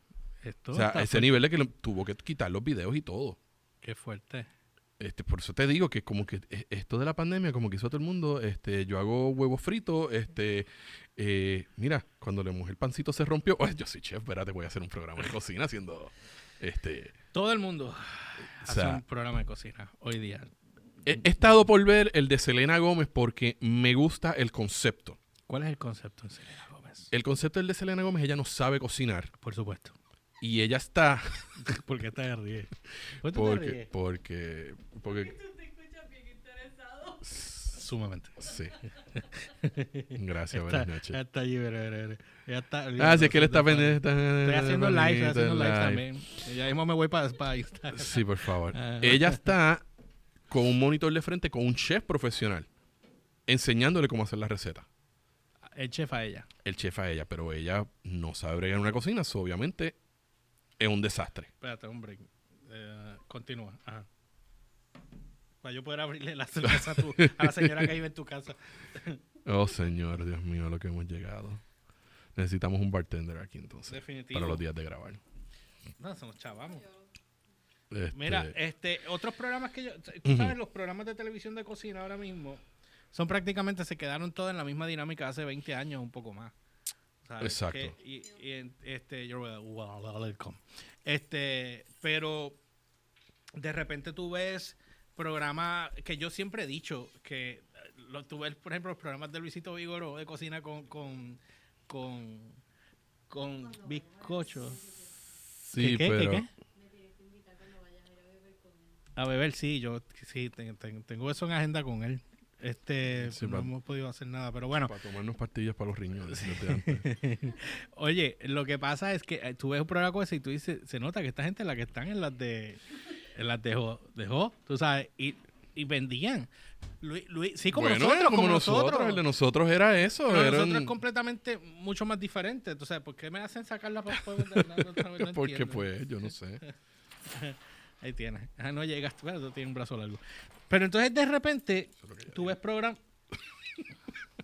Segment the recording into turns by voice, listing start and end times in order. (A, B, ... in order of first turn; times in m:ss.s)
0:00.4-0:01.4 A
0:00.7-0:03.4 B
0:03.8-0:04.5 A
0:05.0-0:17.2 B
0:17.3-0:20.5 A
0:18.6-0:19.0 B
0:21.1-0:25.2 B
0:25.5-0:27.1 A
0:27.1-0:29.3 B
0:29.4-0:30.0 A
0:30.4-0:31.6 B
0:31.6-0:33.9 A
0:33.3-0:35.4 B
0:35.1-0:37.7 C
0:37.2-0:37.6 B
0:37.7-0:38.4 A
0:38.4-0:38.8 B
0:39.2-0:49.5 A
0:40.2-0:41.2 B
0:43.0-0:46.0 B
0:47.9-0:49.8 B
0:50.5-0:52.7 B
0:53.5-0:54.9 B
0:55.7-0:56.5 A
0:56.6-1:00.0 B
1:00.8-1:01.5 B
1:01.6-1:04.1 A
1:05.6-1:09.2 A
1:06.7-1:07.9 B
1:09.4-1:11.6 B
1:12.4-1:15.2 B
1:13.9-1:14.6 A
1:16.0-1:16.9 A
1:16.6-1:17.0 C
1:17.9-1:18.6 B
1:18.1-1:22.6 A
1:20.3-1:20.6 B
1:23.1-1:26.5 A
1:27.2-1:32.6 A
1:27.4-1:27.9 B
1:33.6-1:42.6 A
1:43.3-1:44.8 A
1:43.6-1:45.3 C
1:45.7-1:46.4 B
1:45.7-1:46.5 A
1:46.7-1:49.0 C
1:49.2-1:54.9 A
1:53.2-1:53.7 B
1:54.8-1:57.1 B
1:56.3-2:02.8 A
2:03.3-2:09.2 A
2:07.7-2:10.9 B
2:10.3-2:15.9 A
2:14.3-2:16.6 B
2:17.3-2:23.0 A
2:22.1-2:22.5 B